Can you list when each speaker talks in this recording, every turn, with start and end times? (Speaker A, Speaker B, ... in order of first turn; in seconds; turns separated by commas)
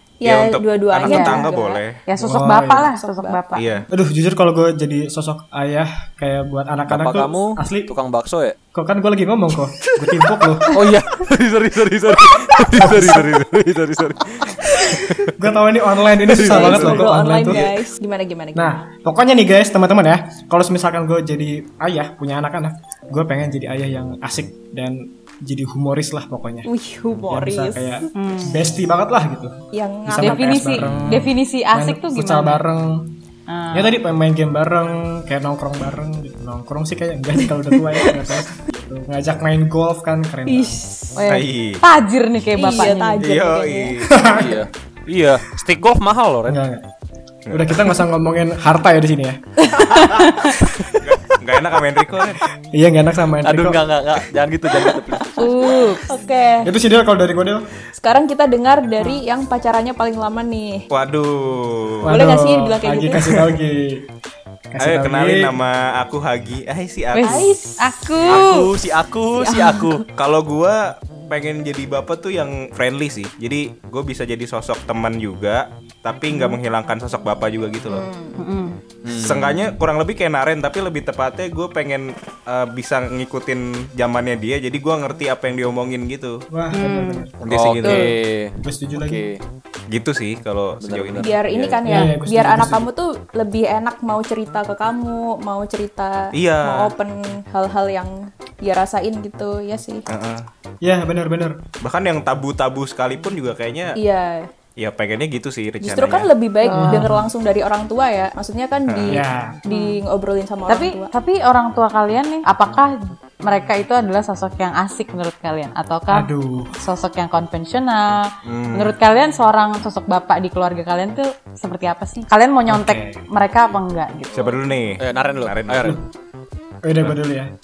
Speaker A: 0.2-1.8, Speaker B: 0.2-2.0, Speaker C: 1.1-1.5, Speaker C: 2.1-3.7, Speaker D: 2.1-2.9, Speaker A: 2.9-3.6, Speaker B: 3.5-3.9, Speaker D: 3.9-7.9, Speaker E: 6.9-8.6, Speaker D: 8.7-10.7, Speaker E: 10.7-15.3, Speaker D: 12.8-13.4, Speaker D: 15.3-17.8, Speaker E: 16.3-17.0, Speaker A: 16.3-18.8, Speaker D: 18.6-26.7, Speaker A: 26.6-27.8, Speaker D: 27.3-33.1, Speaker C: 28.1-28.6, Speaker A: 29.7-30.8, Speaker C: 30.2-32.6, Speaker E: 30.8-31.3, Speaker B: 30.9-31.2, Speaker C: 33.5-34.0, Speaker D: 33.7-40.8, Speaker A: 40.5-41.2, Speaker C: 41.2-43.2, Speaker B: 41.3-41.8, Speaker A: 42.5-44.0, Speaker B: 43.2-44.2, Speaker D: 44.1-44.7, Speaker E: 44.3-46.6, Speaker D: 46.5-46.9, Speaker B: 47.5-47.8, Speaker D: 47.5-49.4, Speaker C: 49.8-50.5, Speaker B: 51.0-52.4, Speaker D: 52.7-53.9, Speaker E: 53.4-55.3, Speaker A: 55.2-56.7, Speaker C: 55.4-56.1, Speaker D: 56.6-57.7, Speaker A: 57.9-60.9, Speaker B: 60.9-62.1, Speaker D: 62.0-64.1, Speaker A: 62.1-63.4, Speaker D: 64.7-65.6, Speaker B: 64.8-67.4, Speaker C: 67.1-68.7, Speaker A: 67.2-68.7, Speaker E: 68.3-70.0, Speaker A: 69.3-70.0, Speaker B: 70.2-78.1, Speaker A: 77.9-78.4, Speaker C: 78.4-78.8, Speaker E: 79.0-79.7, Speaker B: 79.1-86.4, Speaker D: 86.5-87.3, Speaker C: 86.7-87.3, Speaker E: 87.4-89.4, Speaker B: 87.4-88.1, Speaker D: 88.6-89.3, Speaker B: 89.9-91.8, Speaker E: 90.8-91.4, Speaker A: 91.2-100.1, Speaker D: 91.9-92.9, Speaker B: 96.3-96.9, Speaker B: 100.1-100.5, Speaker D: 100.8-101.6, Speaker B: 101.8-104.0, Speaker A: 104.0-104.5, Speaker B: 104.8-106.3, Speaker A: 105.8-111.1, Speaker C: 106.6-107.1, Speaker D: 106.7-107.3, Speaker B: 108.9-109.2, Speaker D: 109.1-109.6, Speaker C: 109.7-110.0, Speaker C: 110.7-124.6, Speaker D: 116.1-116.8, Speaker B: 118.5-119.0, Speaker D: 122.7-123.2, Speaker B: 124.3-126.0, Speaker E: 125.0-126.0, Speaker D: 126.8-127.5